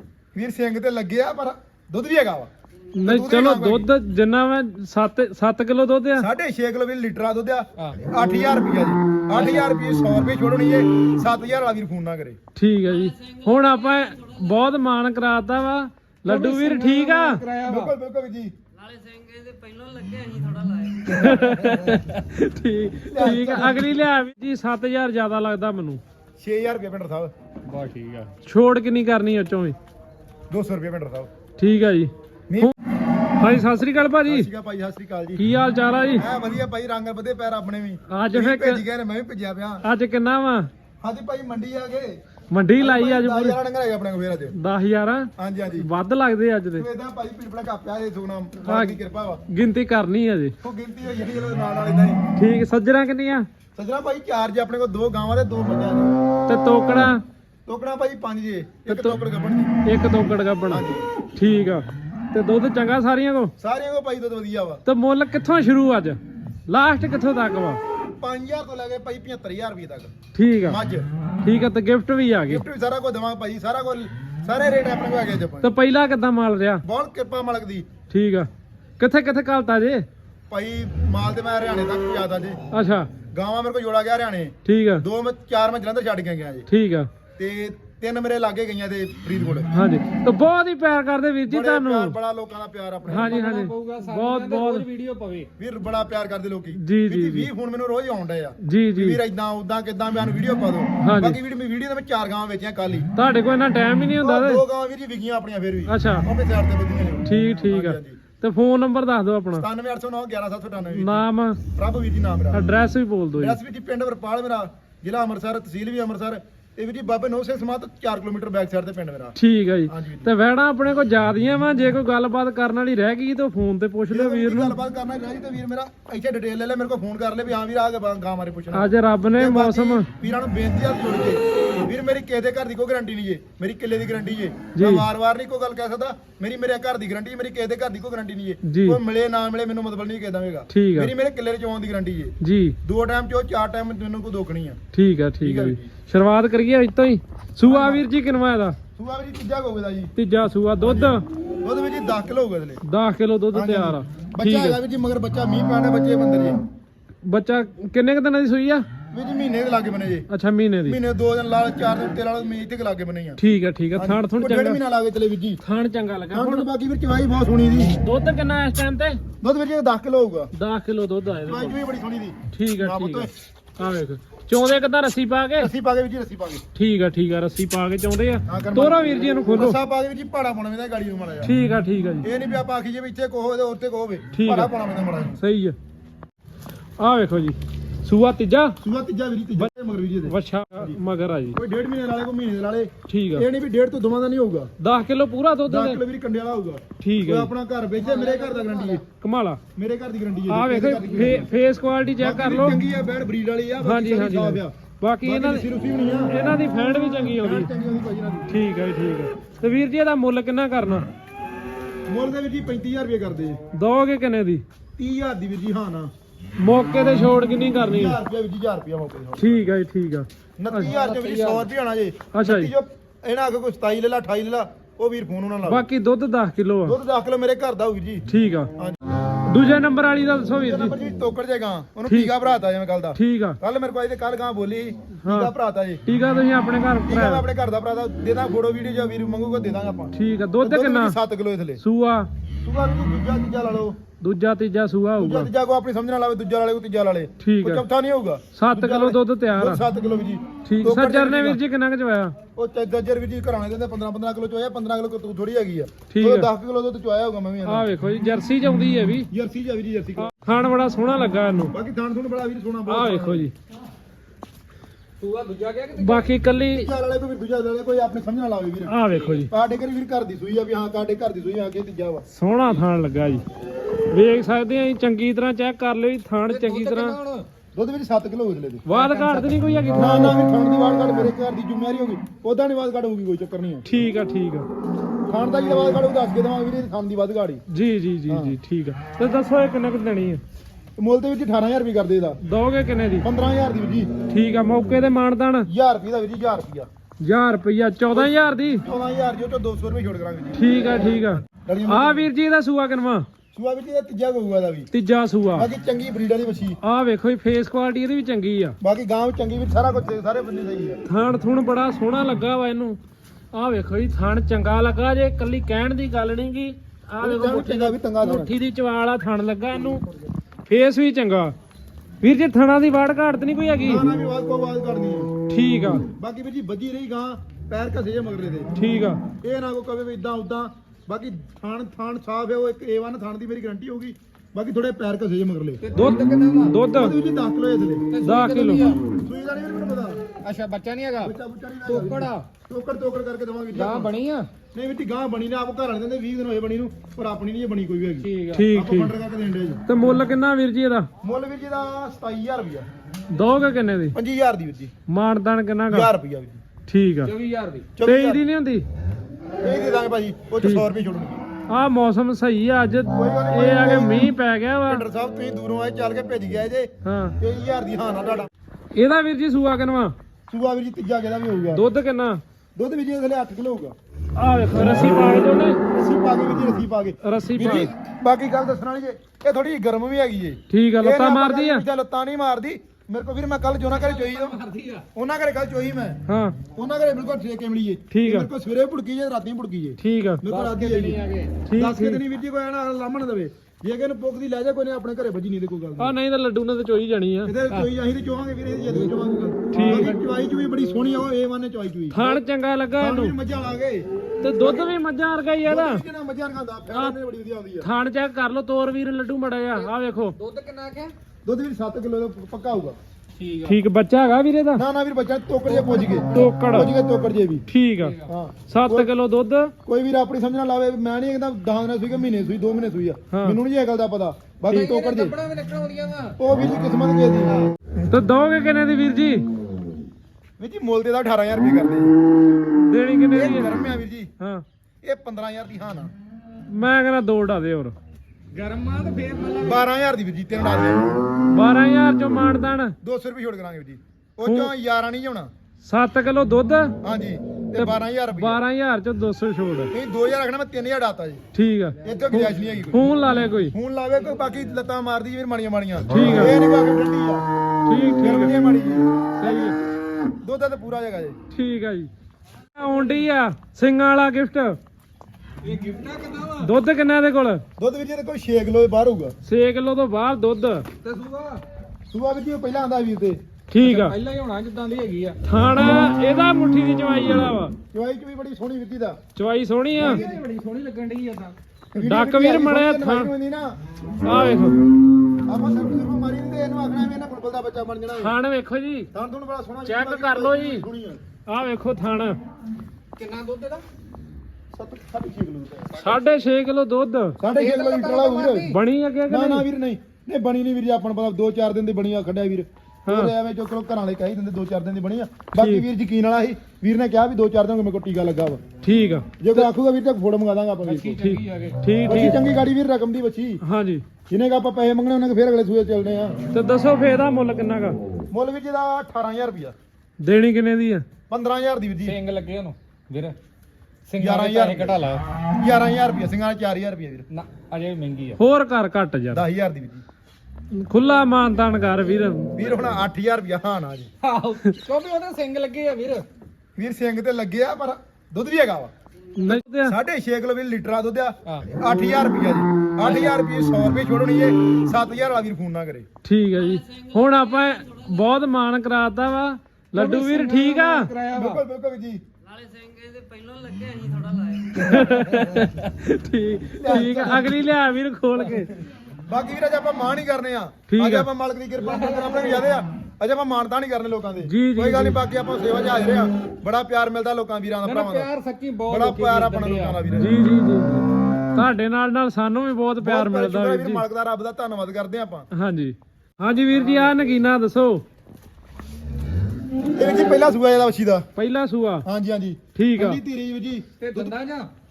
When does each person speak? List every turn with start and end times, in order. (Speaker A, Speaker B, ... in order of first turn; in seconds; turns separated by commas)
Speaker A: 0.3-2.5, Speaker B: 3.0-6.3, Speaker A: 3.0-3.9, Speaker A: 6.2-12.4, Speaker B: 12.6-17.4, Speaker C: 16.2-17.9, Speaker A: 17.6-18.5, Speaker D: 19.1-20.7, Speaker B: 20.5-26.0, Speaker C: 21.1-21.4, Speaker A: 21.2-22.0, Speaker A: 23.1-24.0, Speaker A: 26.4-27.3, Speaker C: 27.6-28.3, Speaker B: 28.4-29.8, Speaker A: 30.5-31.3, Speaker B: 31.6-32.7, Speaker A: 32.5-32.7, Speaker B: 33.4-34.5, Speaker A: 34.2-35.4, Speaker B: 35.4-36.2, Speaker A: 36.2-39.8, Speaker B: 38.1-38.8, Speaker B: 39.8-40.7, Speaker A: 41.0-42.2, Speaker B: 42.5-43.6, Speaker A: 42.8-44.5, Speaker B: 44.5-46.9, Speaker A: 45.4-45.9, Speaker A: 46.8-49.4, Speaker B: 48.6-49.0, Speaker B: 49.5-50.5, Speaker A: 50.6-52.2, Speaker B: 52.4-53.5, Speaker A: 53.8-56.1, Speaker B: 56.5-57.2, Speaker A: 57.7-59.8, Speaker B: 58.9-59.2, Speaker B: 59.8-63.5, Speaker A: 60.7-61.0, Speaker A: 63.6-64.8, Speaker B: 64.8-67.8, Speaker A: 68.2-70.1, Speaker B: 70.3-70.8, Speaker A: 70.7-71.0, Speaker B: 71.4-72.6, Speaker A: 72.5-75.7, Speaker B: 75.6-76.8, Speaker A: 76.8-77.9, Speaker B: 78.1-80.0, Speaker A: 80.5-82.6, Speaker B: 82.7-83.1, Speaker A: 83.3-86.7, Speaker B: 84.6-85.0, Speaker B: 86.7-87.1, Speaker A: 87.4-89.7, Speaker B: 89.7-92.2, Speaker A: 91.5-93.4, Speaker C: 93.0-95.5, Speaker B: 93.1-94.9, Speaker A: 95.6-103.1, Speaker B: 96.8-97.5, Speaker B: 98.6-99.2, Speaker B: 101.0-101.4, Speaker B: 103.2-104.6, Speaker A: 104.2-108.2, Speaker B: 105.9-106.2, Speaker B: 107.2-109.7, Speaker A: 109.5-112.7, Speaker B: 110.9-111.6, Speaker B: 112.5-113.6, Speaker A: 113.4-119.3, Speaker B: 119.3-124.8, Speaker A: 119.9-120.3, Speaker A: 124.1-144.8, Speaker B: 128.7-130.1, Speaker B: 134.7-135.1, Speaker B: 138.6-139.0, Speaker B: 140.7-141.1, Speaker B: 142.4-142.8, Speaker B: 144.9-148.8, Speaker A: 145.4-145.9, Speaker A: 147.6-148.1, Speaker A: 148.9-150.1, Speaker B: 150.2-151.2, Speaker A: 150.8-152.8, Speaker B: 152.8-154.8, Speaker A: 153.5-156.6, Speaker B: 157.2-158.8, Speaker A: 159.1-160.2, Speaker B: 160.3-161.0, Speaker A: 160.8-163.4, Speaker B: 163.4-164.8, Speaker A: 163.9-165.6, Speaker B: 165.6-166.7, Speaker A: 166.3-167.9, Speaker B: 168.0-169.2, Speaker A: 169.4-170.5, Speaker B: 170.5-171.8, Speaker A: 171.5-173.3, Speaker B: 172.5-175.7, Speaker A: 175.6-176.6, Speaker B: 176.7-179.8, Speaker A: 178.5-181.5, Speaker B: 181.4-182.2, Speaker A: 182.2-185.4, Speaker B: 184.3-184.7, Speaker B: 185.4-185.8, Speaker B: 187.0-188.8, Speaker A: 188.8-190.9, Speaker B: 190.2-191.6, Speaker A: 191.5-194.7, Speaker B: 193.1-193.5, Speaker B: 194.8-196.0, Speaker A: 195.7-199.0, Speaker B: 197.0-197.5, Speaker C: 198.0-199.1, Speaker B: 199.1-199.6, Speaker A: 199.8-201.5, Speaker B: 200.5-202.8, Speaker A: 202.2-206.3, Speaker B: 203.8-205.7, Speaker B: 206.3-207.7, Speaker A: 207.4-208.5, Speaker B: 208.5-211.1, Speaker A: 212.1-213.6, Speaker B: 213.7-214.6, Speaker A: 215.0-216.1, Speaker B: 216.6-218.2, Speaker A: 217.8-219.6, Speaker B: 219.3-220.9, Speaker A: 220.6-225.8, Speaker C: 220.8-221.7, Speaker B: 222.3-222.7, Speaker B: 225.6-226.9, Speaker A: 226.8-228.2, Speaker B: 228.3-228.7, Speaker B: 229.5-230.9, Speaker A: 230.5-236.0, Speaker B: 232.1-232.3, Speaker B: 233.2-233.6, Speaker B: 235.2-235.5, Speaker B: 236.1-237.4, Speaker A: 237.1-241.8, Speaker B: 240.1-241.2, Speaker B: 241.8-242.3, Speaker A: 242.6-244.0, Speaker B: 244.2-245.5, Speaker A: 245.2-251.6, Speaker B: 247.4-247.8, Speaker B: 248.5-249.8, Speaker B: 250.7-252.3, Speaker A: 252.6-257.9, Speaker B: 256.1-256.5, Speaker B: 257.6-259.3, Speaker A: 259.3-260.3, Speaker B: 260.2-261.7, Speaker A: 261.7-263.5, Speaker B: 262.9-263.5, Speaker C: 265.2-266.3, Speaker B: 265.9-266.9, Speaker A: 266.7-268.9, Speaker B: 268.9-269.5, Speaker A: 269.5-272.2, Speaker B: 272.3-273.4, Speaker B: 274.1-277.2, Speaker C: 276.5-277.5, Speaker A: 277.7-278.8, Speaker B: 278.9-280.4, Speaker C: 278.9-279.6, Speaker A: 279.9-283.9, Speaker B: 283.9-284.7, Speaker A: 285.3-287.6, Speaker B: 287.7-290.4, Speaker A: 288.3-288.6, Speaker A: 291.0-292.4, Speaker B: 292.4-293.2, Speaker A: 293.2-294.1, Speaker B: 294.3-295.7, Speaker A: 295.7-296.9, Speaker B: 297.2-298.8, Speaker A: 298.1-302.3, Speaker B: 300.5-303.3, Speaker A: 303.5-304.9, Speaker B: 304.9-305.7, Speaker A: 305.6-306.8, Speaker B: 306.8-308.8, Speaker A: 308.8-311.0, Speaker B: 311.0-313.0, Speaker B: 313.5-320.0, Speaker A: 317.2-318.5, Speaker B: 320.6-321.5, Speaker B: 322.2-324.0, Speaker A: 323.8-325.3, Speaker B: 325.5-326.1, Speaker A: 326.1-328.7, Speaker B: 328.8-329.2, Speaker A: 329.4-335.8, Speaker C: 335.8-336.8, Speaker B: 335.9-337.1, Speaker A: 337.0-338.1, Speaker C: 338.1-339.0, Speaker B: 338.2-338.9, Speaker A: 339.2-340.2, Speaker C: 340.4-341.3, Speaker A: 341.2-344.1, Speaker C: 341.9-342.5, Speaker C: 343.7-344.5, Speaker A: 344.7-349.8, Speaker C: 348.2-348.7, Speaker B: 348.5-349.1, Speaker B: 349.9-351.1, Speaker A: 351.2-352.9, Speaker B: 353.3-354.1, Speaker A: 354.1-354.9, Speaker B: 355.1-356.1, Speaker A: 355.9-356.6, Speaker B: 356.9-357.3, Speaker C: 357.2-358.0, Speaker A: 357.9-358.4, Speaker B: 358.0-358.9, Speaker A: 359.6-361.4, Speaker B: 360.6-360.9, Speaker B: 361.7-365.1, Speaker A: 363.1-364.3, Speaker A: 364.9-368.5, Speaker B: 367.0-367.4, Speaker B: 368.9-370.1, Speaker A: 370.5-371.8, Speaker B: 371.7-372.4, Speaker A: 372.8-373.9, Speaker B: 374.4-375.8, Speaker A: 375.8-384.6, Speaker B: 377.2-377.9, Speaker B: 380.7-381.8, Speaker C: 383.9-385.1, Speaker A: 385.1-386.2, Speaker B: 386.3-386.6, Speaker A: 386.7-391.2, Speaker B: 388.1-388.5, Speaker B: 390.0-390.4, Speaker C: 390.4-391.6, Speaker B: 391.6-392.2, Speaker A: 391.7-396.1, Speaker B: 396.0-397.5, Speaker A: 397.4-402.4, Speaker B: 399.7-400.1, Speaker B: 402.1-403.3, Speaker A: 403.0-404.9, Speaker B: 404.4-406.0, Speaker A: 405.6-407.9, Speaker B: 407.8-410.4, Speaker C: 409.7-411.1, Speaker A: 411.4-413.0, Speaker C: 413.4-413.8, Speaker B: 413.6-414.8, Speaker A: 414.8-417.6, Speaker C: 415.6-416.5, Speaker B: 416.3-416.9, Speaker B: 417.7-419.7, Speaker C: 418.0-418.3, Speaker A: 418.2-419.1, Speaker A: 419.8-425.3, Speaker B: 423.3-423.6, Speaker C: 424.6-426.4, Speaker A: 426.4-427.6, Speaker B: 428.1-429.4, Speaker A: 430.6-432.1, Speaker B: 432.9-433.8, Speaker A: 433.3-434.3, Speaker B: 434.4-434.6, Speaker A: 435.0-436.1, Speaker B: 436.7-437.9, Speaker C: 438.5-439.9, Speaker A: 439.6-441.2, Speaker B: 441.5-442.9, Speaker A: 443.0-445.5, Speaker B: 444.4-444.7, Speaker B: 445.8-446.9, Speaker A: 447.0-448.6, Speaker B: 447.7-449.9, Speaker A: 449.9-451.4, Speaker B: 451.5-453.7, Speaker A: 452.0-453.0, Speaker A: 453.7-457.4, Speaker B: 456.1-456.6, Speaker B: 457.9-458.5, Speaker A: 458.2-459.7, Speaker B: 459.4-459.7, Speaker A: 460.4-461.4, Speaker B: 461.5-462.1, Speaker B: 462.8-464.8, Speaker C: 465.6-466.7, Speaker B: 466.6-467.6, Speaker A: 467.8-469.3, Speaker B: 469.4-470.9, Speaker C: 471.0-471.6, Speaker A: 472.1-473.4, Speaker B: 473.7-474.2, Speaker C: 473.8-475.4, Speaker B: 475.4-477.7, Speaker A: 477.9-479.2, Speaker B: 479.4-480.2, Speaker A: 480.0-480.4, Speaker C: 480.0-481.6, Speaker A: 481.9-483.7, Speaker B: 482.0-483.3, Speaker B: 484.2-484.8, Speaker A: 485.4-488.3, Speaker B: 488.1-489.1, Speaker A: 489.1-491.2, Speaker B: 489.9-490.8, Speaker B: 491.5-492.4, Speaker C: 493.1-493.8, Speaker A: 494.7-496.1, Speaker B: 496.0-497.4, Speaker A: 497.4-498.8, Speaker C: 497.5-498.8, Speaker B: 498.6-499.6, Speaker A: 499.3-508.6, Speaker B: 503.1-503.3, Speaker B: 505.5-505.8, Speaker B: 508.8-509.7, Speaker A: 509.4-511.2, Speaker C: 510.8-511.8, Speaker B: 511.1-512.4, Speaker A: 512.1-513.6, Speaker B: 513.6-514.0, Speaker A: 514.3-516.4, Speaker B: 516.5-518.0, Speaker A: 518.3-519.7, Speaker B: 520.2-521.0, Speaker A: 521.3-522.1, Speaker C: 522.0-523.4, Speaker C: 524.1-525.2, Speaker A: 524.2-525.0, Speaker A: 525.6-527.2, Speaker C: 527.3-528.4, Speaker B: 528.4-529.4, Speaker A: 529.3-530.0, Speaker B: 530.8-532.7, Speaker A: 532.5-534.1, Speaker C: 534.2-536.2, Speaker A: 536.8-538.9, Speaker B: 539.4-539.9, Speaker A: 539.5-546.1, Speaker C: 543.0-543.3, Speaker B: 546.2-551.1, Speaker C: 549.9-551.6, Speaker A: 551.3-552.2, Speaker D: 552.7-554.4, Speaker B: 554.7-558.7, Speaker C: 554.7-555.7, Speaker A: 556.8-557.7, Speaker A: 559.3-568.3, Speaker B: 560.9-561.3, Speaker C: 561.8-562.6, Speaker B: 564.4-565.2, Speaker C: 567.8-570.0, Speaker A: 568.9-570.3, Speaker B: 570.1-574.0, Speaker A: 573.0-575.5, Speaker B: 575.5-578.0, Speaker C: 576.8-577.2, Speaker A: 579.9-581.3, Speaker B: 581.4-582.0, Speaker A: 582.0-584.3, Speaker B: 582.8-583.2, Speaker C: 584.0-584.7